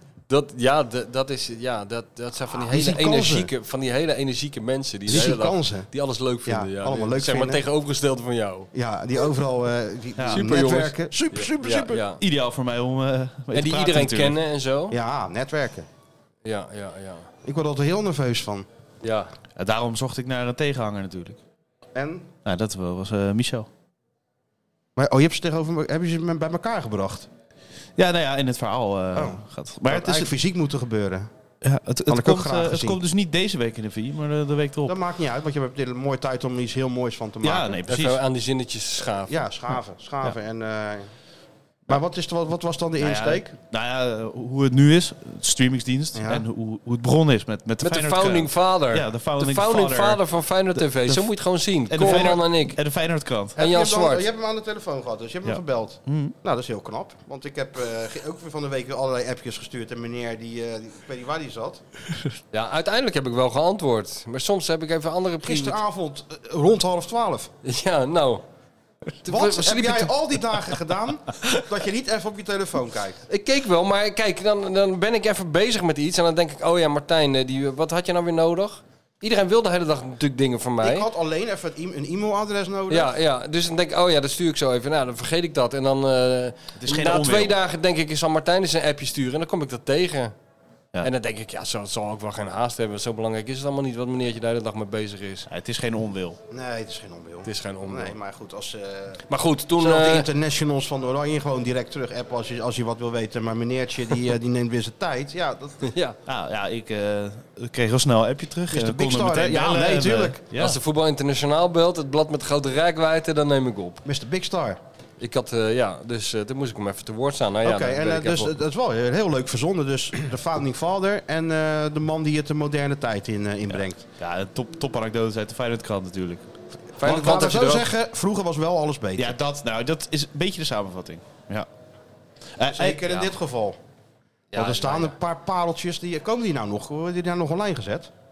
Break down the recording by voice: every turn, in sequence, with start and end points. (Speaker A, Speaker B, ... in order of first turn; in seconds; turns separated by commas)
Speaker A: 0.3-8.7, Speaker B: 2.5-3.5, Speaker B: 5.1-5.9, Speaker B: 6.5-7.6, Speaker B: 8.7-12.0, Speaker C: 10.2-10.4, Speaker A: 10.3-12.2, Speaker C: 12.2-14.4, Speaker A: 13.5-15.0, Speaker B: 14.9-15.9, Speaker A: 16.4-17.3, Speaker B: 17.4-18.7, Speaker A: 19.0-19.3, Speaker C: 19.6-21.4, Speaker B: 21.9-22.3, Speaker C: 22.4-23.7, Speaker B: 25.0-27.3, Speaker C: 28.0-30.3, Speaker B: 29.1-31.3, Speaker C: 31.6-35.0, Speaker B: 32.1-33.0, Speaker B: 34.9-37.8, Speaker C: 37.4-38.2, Speaker A: 37.9-39.5, Speaker B: 39.3-41.1, Speaker B: 41.9-43.5, Speaker C: 43.0-50.2, Speaker B: 46.1-46.5, Speaker A: 47.8-52.8, Speaker C: 50.8-51.3, Speaker C: 51.9-53.6, Speaker B: 52.0-52.4, Speaker B: 53.6-61.8, Speaker A: 53.6-54.2, Speaker C: 55.5-56.3, Speaker A: 62.5-65.8, Speaker B: 65.4-67.5, Speaker A: 67.6-68.4, Speaker A: 69.2-70.1, Speaker B: 69.3-73.2, Speaker A: 73.3-81.1, Speaker B: 80.8-83.1, Speaker A: 82.9-90.3, Speaker C: 86.8-87.6, Speaker A: 91.0-95.5, Speaker C: 95.5-96.4, Speaker B: 96.5-99.2, Speaker A: 97.5-98.2, Speaker A: 99.3-100.3, Speaker B: 99.8-105.9, Speaker A: 105.8-106.2, Speaker C: 106.3-110.8, Speaker B: 108.7-110.4, Speaker A: 110.6-114.0, Speaker B: 114.0-114.8, Speaker A: 115.2-118.5, Speaker B: 117.6-124.0, Speaker C: 123.8-126.5, Speaker A: 127.0-127.9, Speaker B: 127.0-129.4, Speaker C: 129.2-131.7, Speaker C: 132.6-133.1, Speaker B: 132.7-133.8, Speaker A: 134.5-135.2, Speaker B: 134.5-138.1